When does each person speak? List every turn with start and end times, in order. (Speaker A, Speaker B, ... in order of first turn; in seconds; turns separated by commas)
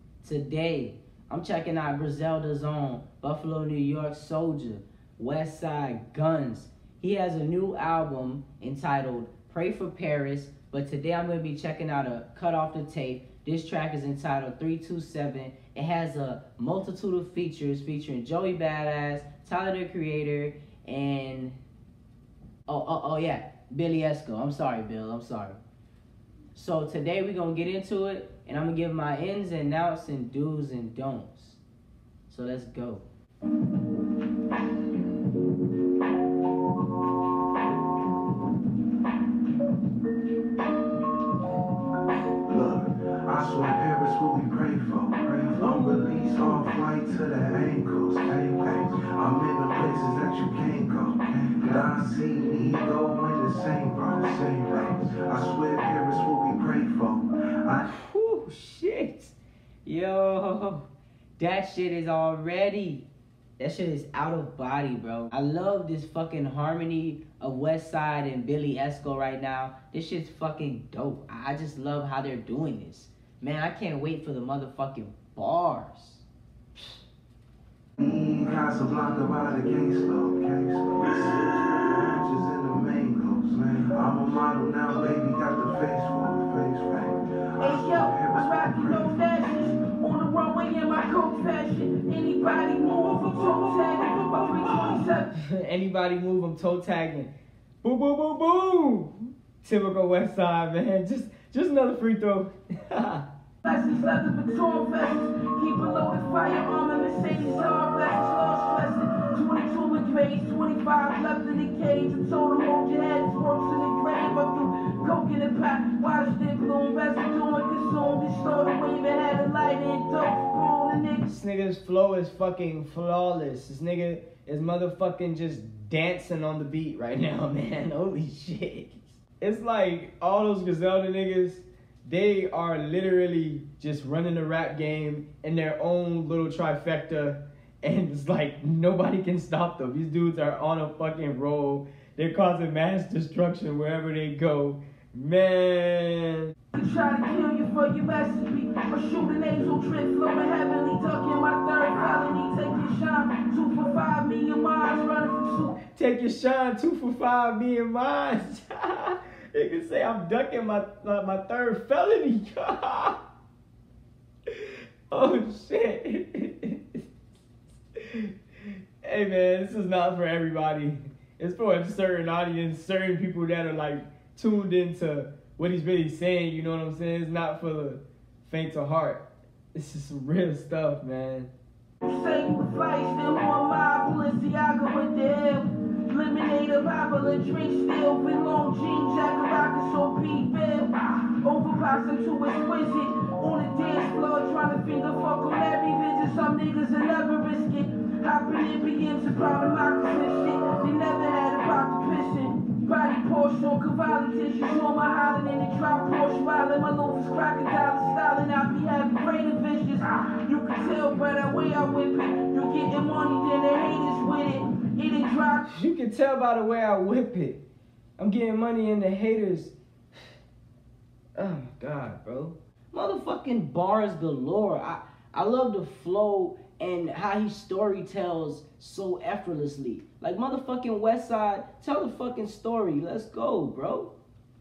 Speaker A: 0.2-21.6, Speaker A: 22.7-25.6, Speaker A: 26.5-31.6, Speaker A: 32.3-33.0, Speaker B: 42.4-57.9, Speaker A: 57.9-59.3, Speaker A: 59.8-60.9, Speaker A: 61.4-63.0, Speaker A: 63.6-76.2, Speaker B: 78.0-89.7, Speaker C: 87.6-95.3, Speaker A: 95.4-97.3, Speaker A: 97.8-99.1, Speaker A: 99.6-103.2, Speaker C: 103.6-121.2, Speaker A: 121.3-146.5, Speaker C: 146.7-155.7, Speaker A: 155.9-158.9, Speaker A: 159.5-163.1, Speaker A: 165.1-166.7, Speaker A: 169.0-179.2, Speaker A: 179.8-181.5, Speaker C: 182.0-215.6, Speaker A: 215.7-217.6, Speaker A: 218.2-219.7, Speaker A: 221.3-234.1